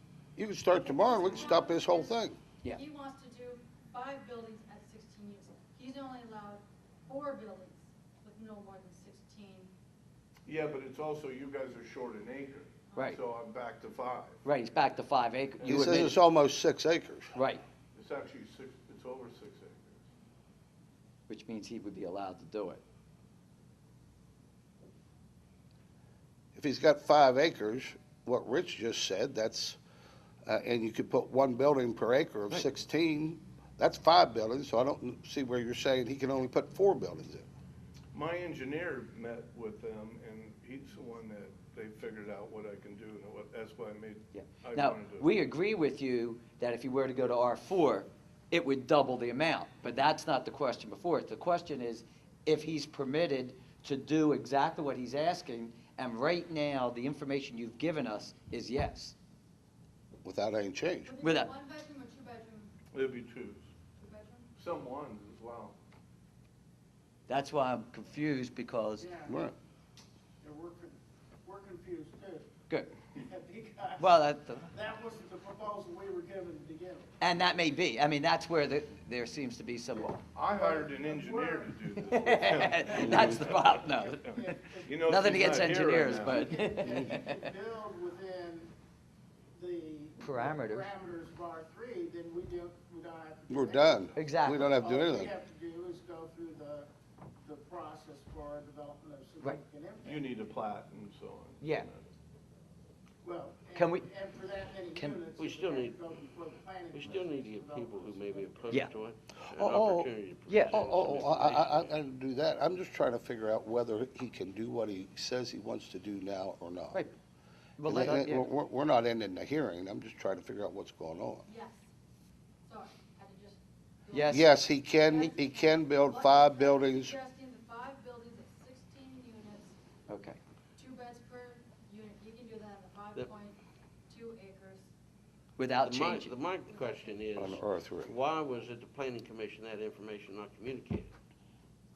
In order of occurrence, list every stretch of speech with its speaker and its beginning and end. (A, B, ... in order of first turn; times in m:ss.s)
0:00.4-0:02.4 A
0:00.7-0:09.7 B
0:10.4-0:14.4 C
0:12.9-0:13.2 D
0:14.4-0:16.2 D
0:15.6-0:17.3 A
0:17.3-0:17.6 D
0:17.9-0:20.0 C
0:21.3-0:22.8 D
0:26.6-0:29.8 A
0:30.4-0:37.4 A
0:38.1-0:45.3 C
0:44.3-0:59.2 D
1:00.2-1:01.1 A
1:01.0-1:02.7 B
1:01.2-1:01.5 D
1:02.9-1:03.7 C
1:04.0-1:04.5 B
1:04.6-1:05.8 C
1:07.3-1:09.1 D
1:09.0-1:09.4 E
1:09.3-1:09.5 A
1:10.4-1:12.5 E
1:13.1-1:17.1 E
1:14.0-1:14.7 D
1:17.2-1:20.2 D
1:19.9-1:28.7 E
1:20.3-1:26.6 C
1:22.1-1:27.4 D
1:23.0-1:23.4 A
1:29.6-1:34.1 E
1:30.2-1:30.9 D
1:33.5-1:35.3 A
1:34.2-1:34.8 D
1:34.7-1:36.9 E
1:37.4-1:40.4 E
1:40.0-1:42.1 C
1:41.6-1:41.9 D
1:43.2-1:48.9 E
1:43.7-1:44.1 D
1:44.9-1:45.2 D
1:45.3-1:46.3 F
1:46.9-1:51.9 F
1:49.5-1:57.0 A
1:50.5-1:50.8 D
1:57.8-1:58.5 D
1:57.8-2:01.4 A
2:01.5-2:01.8 B
2:02.6-2:09.8 B
2:04.1-2:04.5 D
2:04.3-2:07.2 A
2:10.1-2:10.4 D
2:10.8-2:13.6 B
2:14.1-2:14.9 B
2:15.6-2:16.4 D
2:15.8-2:21.1 F
2:16.7-2:17.2 B
2:17.4-2:18.1 A